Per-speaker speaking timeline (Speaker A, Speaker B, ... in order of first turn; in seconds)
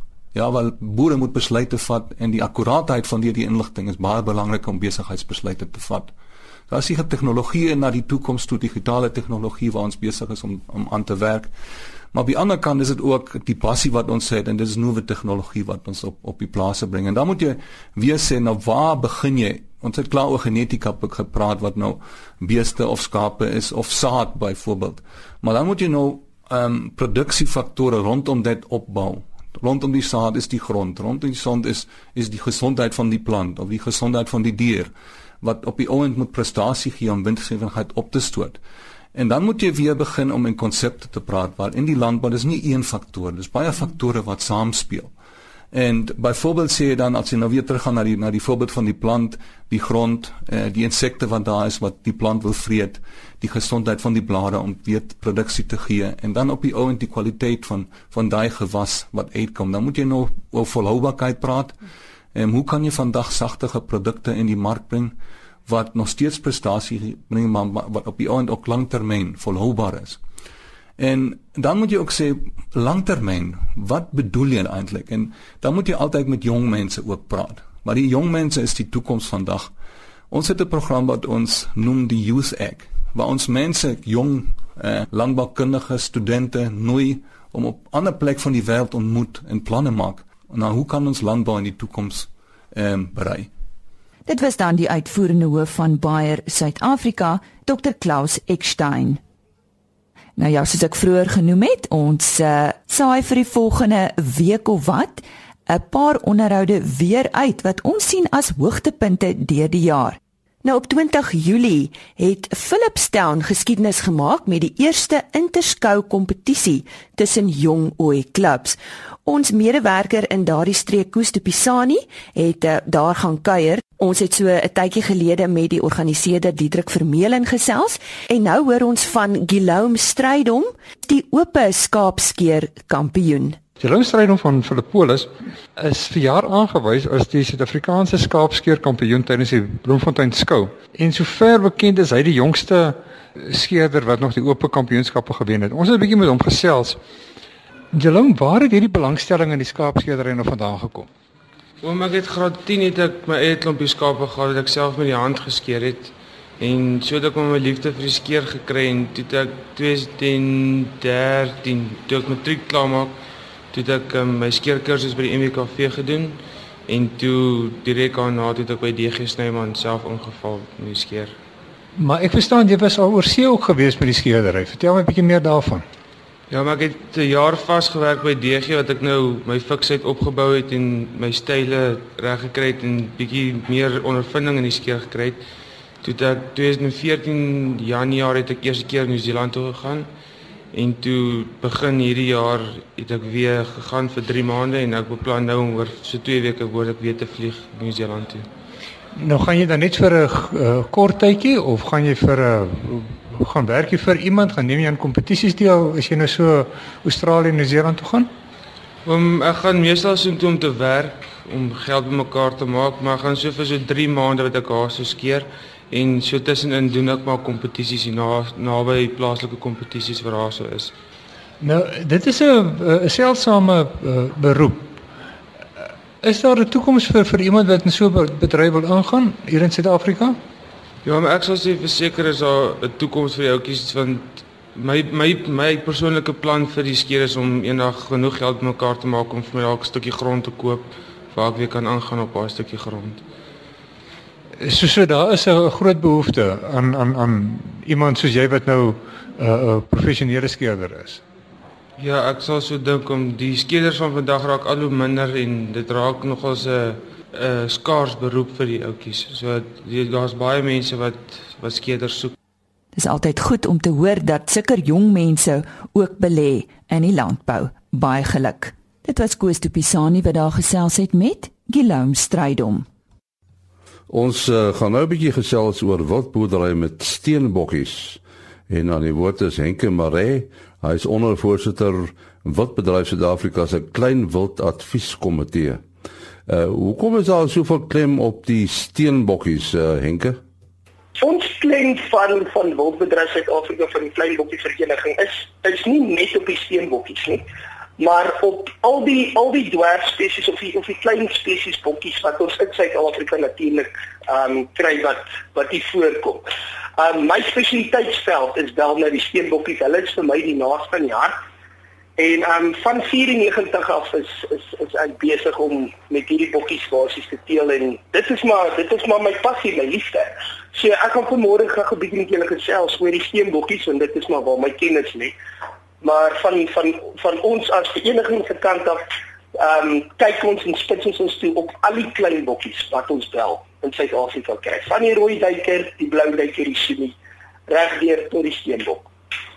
Speaker A: 0.3-6.1, 6.7-11.5, 12.1-38.6, 39.1-45.1, 45.7-61.8, 62.4-65.2, 65.7-70.2, 71.0-79.7, 80.3-93.5
Speaker B: 94.3-99.2, 100.4-133.6, 262.9-272.9
Speaker C: 133.8-147.0, 147.9-151.1, 172.0-175.9, 199.2-208.3, 221.6-225.0, 226.2-230.4, 244.6-251.2
Speaker D: 151.8-163.2, 163.7-171.4, 176.5-185.4, 186.0-190.1, 190.7-198.5, 209.1-220.9, 231.0-243.2, 252.0-262.3
Speaker E: 274.1-285.8, 286.5-290.4
Speaker F: 291.2-297.5, 298.0-311.4, 312.2-325.4, 326.0-329.0, 329.6-337.2, 337.7-339.1